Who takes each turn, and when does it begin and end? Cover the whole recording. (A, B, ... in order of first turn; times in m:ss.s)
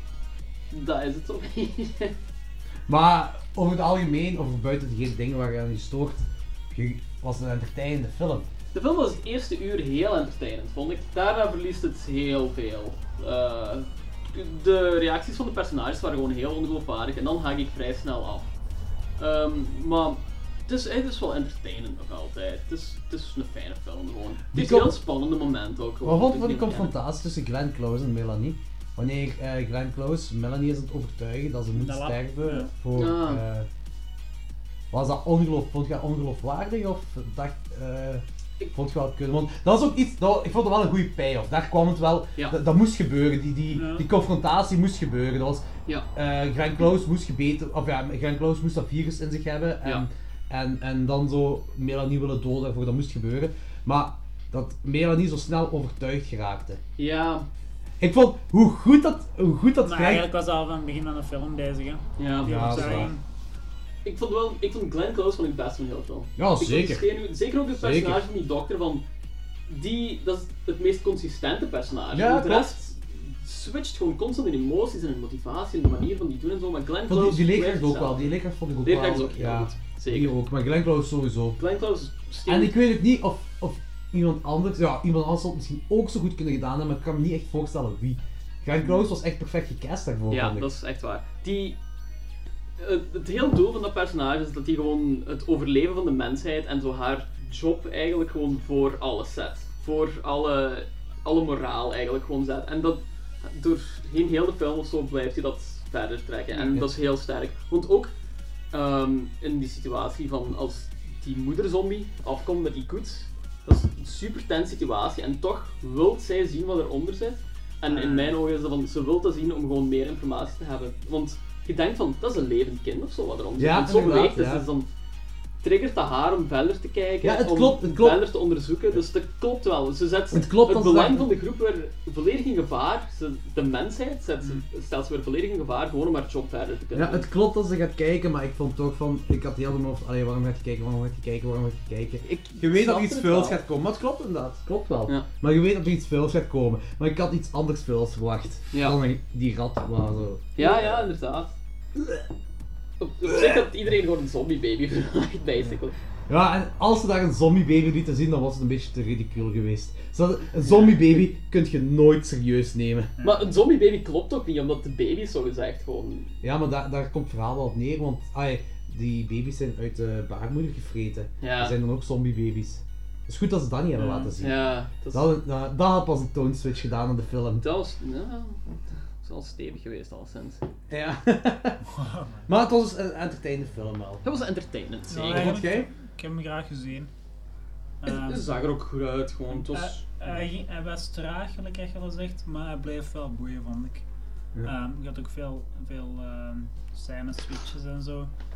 0:00.7-0:02.1 A
0:02.9-0:08.5 B
0:08.7-0:18.5 A
0:19.2-0:26.9 A
0:24.5-0:25.0 B
0:26.0-0:33.7 B
0:31.7-0:32.7 C
0:32.9-0:33.4 A
0:34.9-0:56.8 B
0:43.7-0:44.1 C
0:57.0-0:57.5 A
0:58.0-1:00.3 B
0:59.8-1:03.2 C
1:02.2-1:03.1 A
1:02.4-1:03.1 B
1:04.0-1:09.0 A
1:06.4-1:07.1 B
1:07.8-1:08.2 B
1:09.7-1:18.3 A
1:12.1-1:12.8 B
1:17.1-1:21.6 B
1:18.8-1:20.4 A
1:21.6-1:22.8 A
1:22.5-1:30.7 B
1:30.3-1:31.8 A
1:32.8-1:48.1 A
1:46.6-1:46.9 B
1:48.7-2:04.9 A
1:57.9-1:58.2 B
2:03.6-2:04.6 B
2:05.6-2:17.3 A
2:07.2-2:08.2 B
2:10.3-2:11.3 B
2:16.9-2:31.1 B
2:22.2-2:23.6 A
2:28.7-2:29.0 A
2:30.6-2:31.5 A
2:33.0-2:35.9 A
2:33.2-2:33.6 B
2:36.3-2:43.1 B
2:43.2-2:43.5 C
2:43.2-2:46.3 A
2:46.4-2:57.6 B
2:51.4-2:51.8 A
2:54.0-2:54.4 C
2:54.4-2:55.3 A
2:57.6-2:58.6 A
2:59.2-3:00.6 A
3:00.9-3:01.8 B
3:01.9-3:02.5 C
3:02.5-3:04.2 B
3:04.2-3:05.6 A
3:05.1-3:07.1 C
3:05.3-3:05.9 B
3:08.0-3:08.4 C
3:08.0-3:10.0 A
3:09.5-3:14.0 C
3:14.6-3:18.3 C